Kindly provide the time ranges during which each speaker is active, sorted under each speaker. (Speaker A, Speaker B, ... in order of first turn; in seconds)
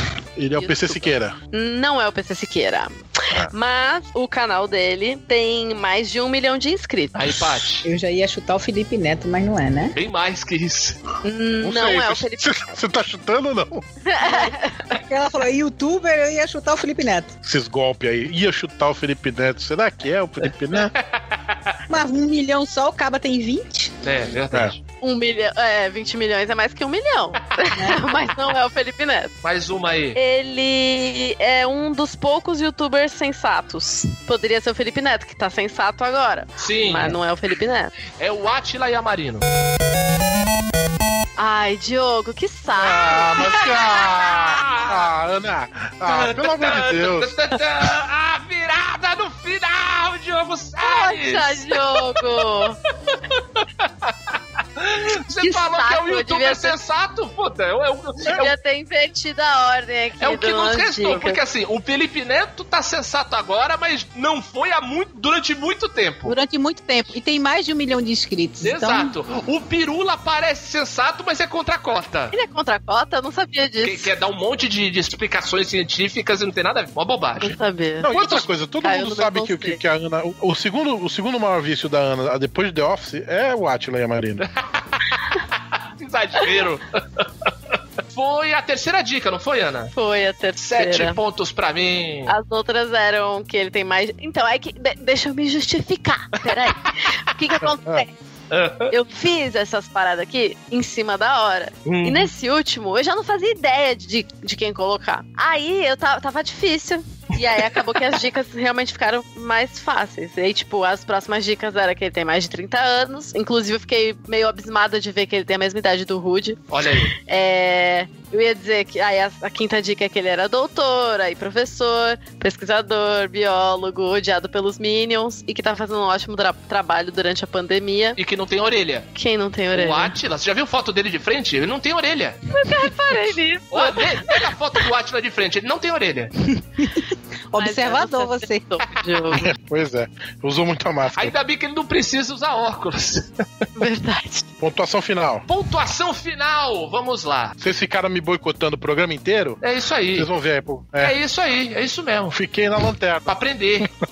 Speaker A: 0.4-1.4, 11.6-13.8, 17.4-20.9, 42.7-47.4, 78.0-84.4, 139.3-141.3, 144.6-145.4, 147.6-149.6, 150.2-151.2, 152.3-153.3
Speaker B: 0.6-7.6, 11.2-12.4, 14.1-14.8, 25.0-29.3, 30.2-38.0, 41.4-44.7, 50.8-52.8, 55.4-56.8, 58.3-61.4, 72.3-74.1, 77.4-78.1, 78.8-79.8, 89.9-91.2, 92.3-98.1, 98.9-116.6, 117.2-128.2, 129.2-130.2, 132.5-134.5, 137.6-139.5, 143.8-144.5
Speaker C: 7.2-7.9, 9.9-11.0, 20.7-21.8, 24.0-24.8, 29.4-30.2, 36.6-37.2, 38.1-39.5, 44.4-45.0, 46.1-52.4, 53.1-58.5, 60.2-66.3, 68.6-72.4, 73.8-77.6, 78.1-78.5, 84.4-85.4, 86.0-87.5, 88.1-89.9, 90.6-92.4, 96.5-96.9, 98.5-98.9, 101.8-102.3, 116.7-117.1, 128.2-129.1, 129.7-132.5, 133.7-136.3, 141.2-143.3, 145.5-147.6, 149.6-150.3, 151.0-152.4, 153.3-153.9
Speaker D: 7.8-10.0, 14.2-17.3, 21.9-23.9, 27.8-28.0, 66.3-69.2, 136.5-138.7